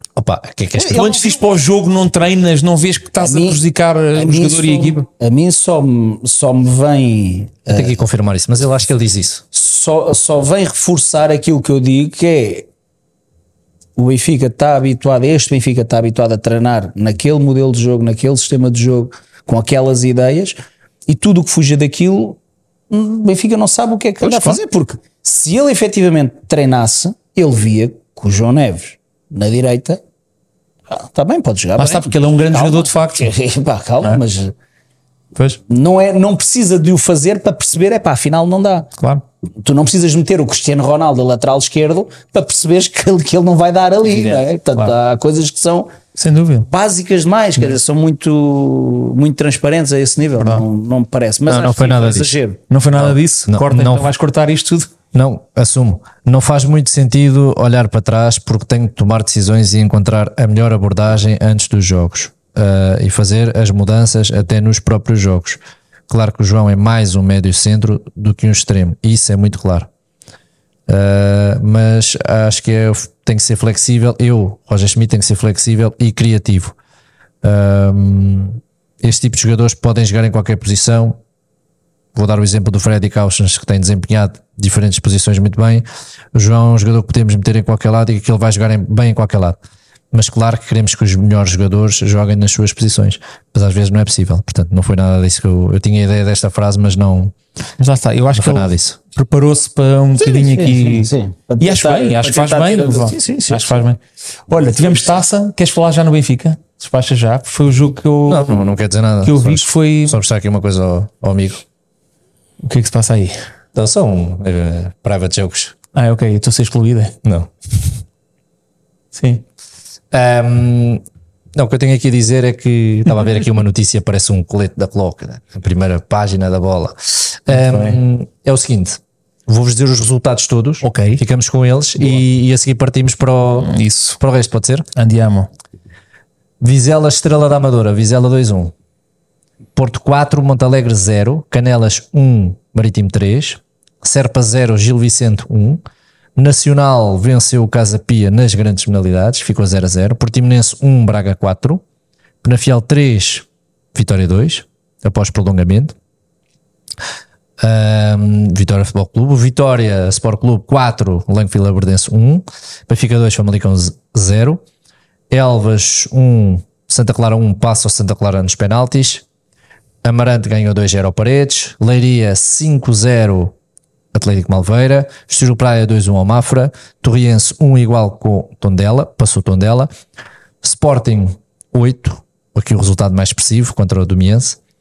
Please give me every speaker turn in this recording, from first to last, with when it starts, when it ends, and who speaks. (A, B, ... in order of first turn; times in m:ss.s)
0:00.2-0:01.1 A
0:00.8-0:01.4 B
0:00.9-0:05.1 C
0:03.2-0:03.6 B
0:04.1-0:08.0 B
0:07.7-0:09.4 A
0:09.5-0:12.7 B
0:14.0-0:22.4 B
0:22.9-0:30.0 B
0:24.2-0:24.6 C
0:30.9-0:34.5 B
0:31.8-0:33.3 C
0:35.7-0:38.9 B
0:39.0-0:39.2 C
0:39.6-0:45.9 B
0:44.1-0:44.9 C
0:46.2-0:46.7 C
0:46.6-0:52.6 B
0:50.4-0:50.6 C
0:51.5-0:52.3 A
0:52.7-0:54.9 C
0:53.0-0:54.1 A
0:55.1-1:09.9 A
1:10.9-1:16.8 A
1:17.4-1:21.2 A
1:22.1-1:29.6 A
1:30.1-1:37.3 A
1:37.8-1:50.2 C
1:38.3-1:39.0 A
1:40.2-1:43.9 B
1:48.2-1:51.6 A
1:52.6-1:53.4 C
1:53.8-1:55.8 A
1:55.9-1:57.2 C
1:57.2-1:57.5 A
1:59.1-1:59.4 C
2:00.1-2:01.0 A
2:01.5-2:14.9 A
2:07.5-2:08.0 C
2:10.8-2:11.2 C
2:13.6-2:14.2 C
2:15.0-2:15.5 C
2:16.6-2:18.7 A
2:19.8-2:25.8 A
2:26.4-2:31.8 A
2:32.4-2:36.0 A
2:37.6-2:44.6 A
2:45.3-2:49.2 A
2:50.0-2:53.5 A
2:54.1-2:59.9 A
3:00.6-3:04.6 A